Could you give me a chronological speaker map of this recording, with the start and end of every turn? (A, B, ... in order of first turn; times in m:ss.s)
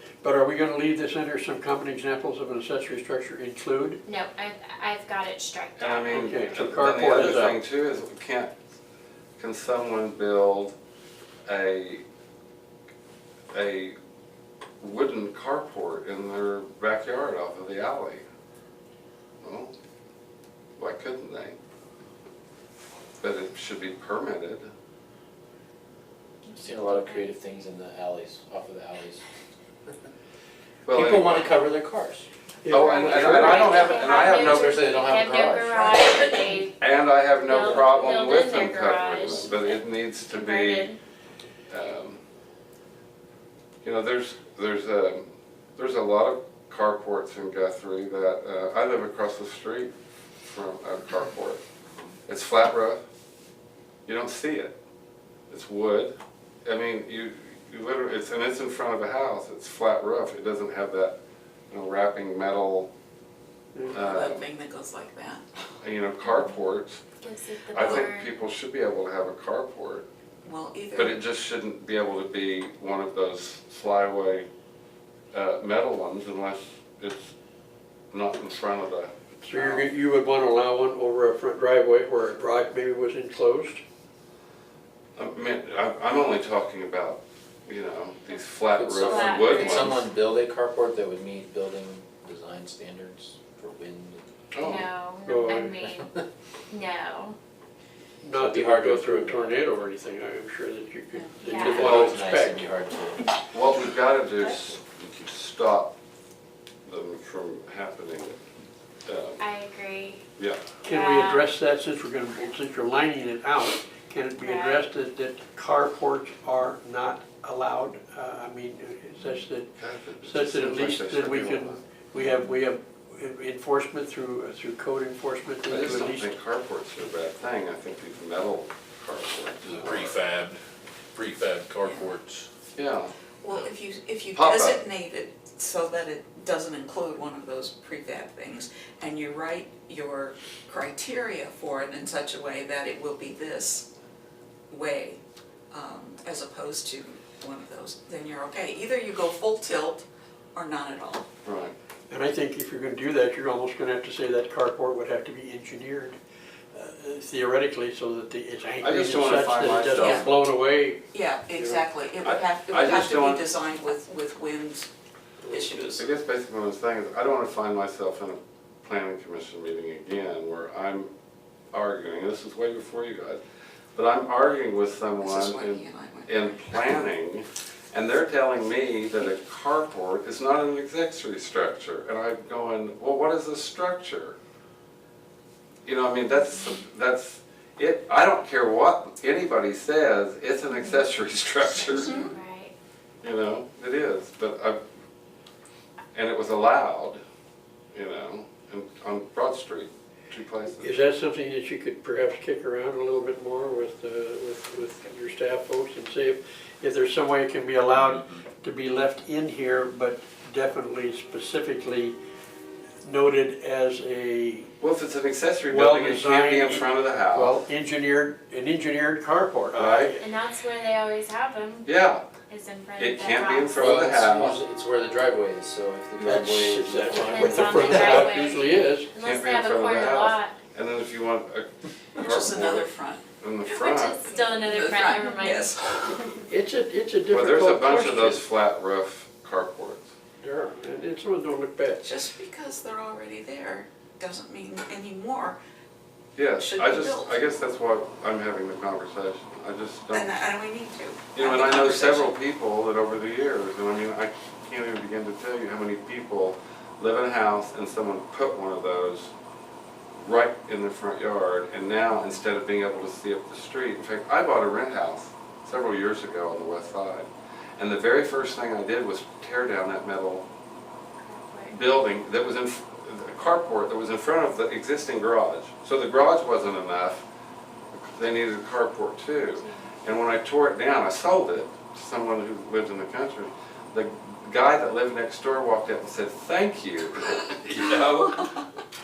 0:00.2-0:04.0 A
0:04.0-0:06.5 B
0:05.8-0:08.5 C
0:06.0-0:07.6 A
0:09.4-0:10.7 C
0:11.5-0:12.0 C
0:13.5-0:14.0 C
0:14.8-0:18.2 C
0:19.4-0:19.7 C
0:20.8-0:21.6 C
0:23.2-0:24.7 C
0:26.5-0:27.7 B
0:26.6-0:29.2 D
0:30.9-0:31.5 C
0:30.9-0:32.3 D
0:32.6-0:33.7 A
0:32.7-0:34.9 C
0:32.8-0:36.8 B
0:33.6-0:36.5 D
0:36.8-0:40.9 C
0:37.4-0:41.0 B
0:41.7-0:42.2 C
0:43.8-0:49.9 C
0:50.4-0:51.6 C
0:52.3-0:53.0 C
0:54.0-0:54.8 C
0:55.5-1:01.2 C
1:01.7-1:02.9 C
1:03.9-1:04.5 C
1:03.9-1:05.4 E
1:05.8-1:07.0 C
1:07.2-1:08.4 B
1:07.7-1:10.0 C
1:10.4-1:11.2 E
1:10.9-1:14.5 C
1:15.3-1:17.3 C
1:18.1-1:19.9 C
1:19.4-1:23.8 A
1:25.2-1:30.0 C
1:28.7-1:34.2 D
1:29.0-1:30.0 B
1:34.5-1:34.9 C
1:34.6-1:36.1 B
1:35.2-1:35.8 A
1:35.6-1:36.2 D
1:36.7-1:37.4 B
1:38.2-1:42.7 A
1:38.3-1:39.5 D
1:41.4-1:41.8 B
1:41.6-1:43.3 D
1:41.8-1:42.2 C
1:43.5-1:45.9 C
1:46.8-1:48.4 C
1:49.0-1:49.4 C
1:49.4-1:50.2 B
1:50.4-1:50.7 C
1:50.8-1:59.7 A
1:50.8-1:51.4 B
1:54.4-1:54.8 B
1:59.7-2:01.8 C
2:00.2-2:06.4 A
2:05.7-2:10.1 C
2:09.6-2:10.6 F
2:11.1-2:12.5 F
2:11.8-2:12.1 E
2:12.8-2:13.1 C
2:13.4-2:23.9 E
2:14.3-2:14.8 C
2:24.7-2:25.2 E
2:25.7-2:31.3 E
2:31.4-2:31.7 C
2:32.1-2:36.2 A
2:36.7-2:41.8 A
2:38.8-2:40.3 C
2:39.9-2:40.3 E
2:41.1-2:44.9 E
2:42.2-2:43.4 C
2:45.5-2:46.1 E
2:46.0-2:51.1 C
2:51.7-2:53.4 C
2:53.9-3:04.4 C
2:55.2-2:56.8 E
3:05.8-3:12.2 C
3:11.9-3:12.3 E
3:11.9-3:12.7 B
3:13.2-3:14.8 C
3:16.1-3:17.2 C
3:17.9-3:20.9 C
3:20.7-3:32.1 A
3:27.9-3:28.4 F
3:33.0-3:34.7 A
3:34.8-3:37.5 C
3:35.7-3:40.2 A
3:39.8-3:40.1 C
3:40.2-3:41.9 B
3:41.8-3:42.2 C
3:42.5-3:43.8 B
3:43.0-3:44.6 C
3:43.7-3:48.2 D
3:46.2-3:49.1 A
3:47.1-3:50.5 B
3:49.2-3:52.9 C
3:52.2-3:53.2 E
3:53.4-3:54.2 C
3:53.6-3:55.7 B
3:54.3-3:56.3 E
3:56.5-3:58.4 A
3:57.3-4:00.1 C
4:00.4-4:02.1 A
4:02.0-4:05.6 E
4:06.4-4:10.3 C
4:06.6-4:07.4 E
4:10.1-4:12.3 E
4:11.3-4:19.3 C
4:20.2-4:30.4 C
4:22.1-4:22.4 B
4:31.2-4:31.8 B
4:31.7-4:37.2 C
4:37.9-4:48.6 C
4:39.6-4:39.9 B